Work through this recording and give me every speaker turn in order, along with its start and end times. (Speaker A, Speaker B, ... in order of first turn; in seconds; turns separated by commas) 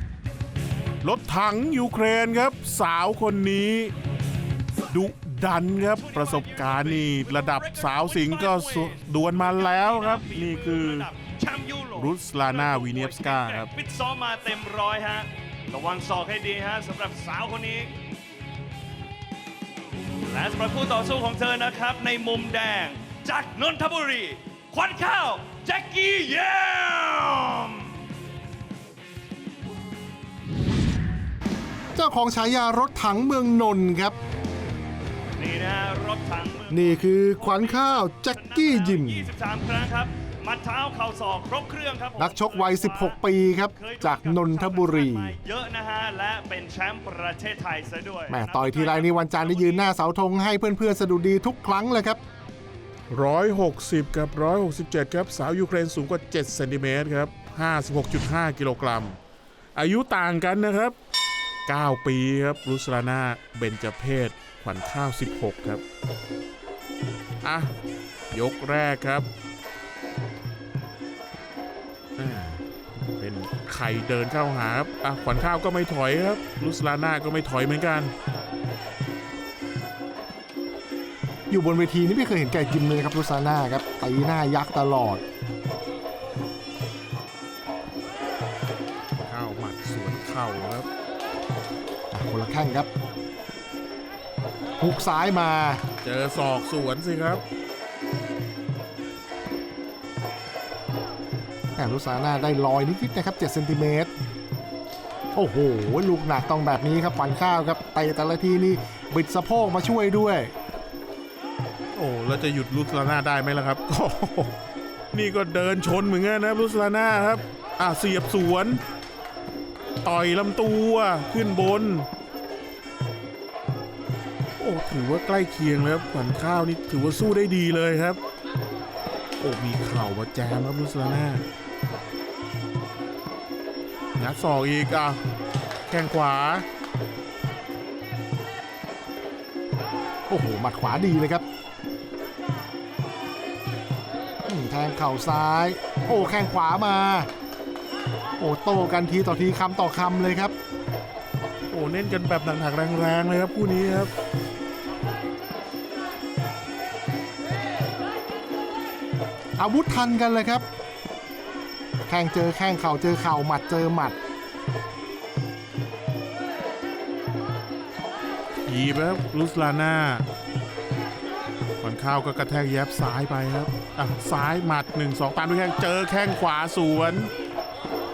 Speaker A: 1.0-3.9, Speaker A: 4.9-11.1, Speaker B: 5.8-17.9, Speaker A: 11.9-13.7, Speaker B: 20.2-28.0, Speaker C: 31.9-34.1, Speaker B: 35.4-43.2, Speaker C: 36.7-39.3, Speaker C: 42.2-45.3, Speaker B: 43.7-49.9, Speaker C: 48.3-52.2, Speaker A: 53.1-59.2, Speaker A: 59.7-60.9, Speaker A: 61.7-65.8, Speaker A: 67.4-67.7, Speaker A: 68.3-69.3, Speaker A: 72.2-78.1, Speaker C: 81.5-85.2, Speaker A: 89.2-90.9, Speaker C: 92.1-92.9, Speaker C: 94.8-95.8, Speaker A: 96.0-97.4, Speaker C: 101.7-104.1, Speaker C: 105.3-110.5, Speaker A: 111.9-114.5, Speaker A: 115.1-118.8, Speaker A: 120.0-122.1, Speaker A: 124.6-128.2, Speaker A: 129.4-131.4, Speaker A: 134.2-135.2, Speaker A: 135.9-136.6, Speaker C: 140.3-141.4, Speaker C: 144.4-147.3, Speaker C: 148.4-150.5, Speaker A: 151.7-154.1, Speaker C: 159.6-160.6, Speaker C: 162.1-164.2, Speaker A: 168.6-170.2, Speaker A: 171.8-177.3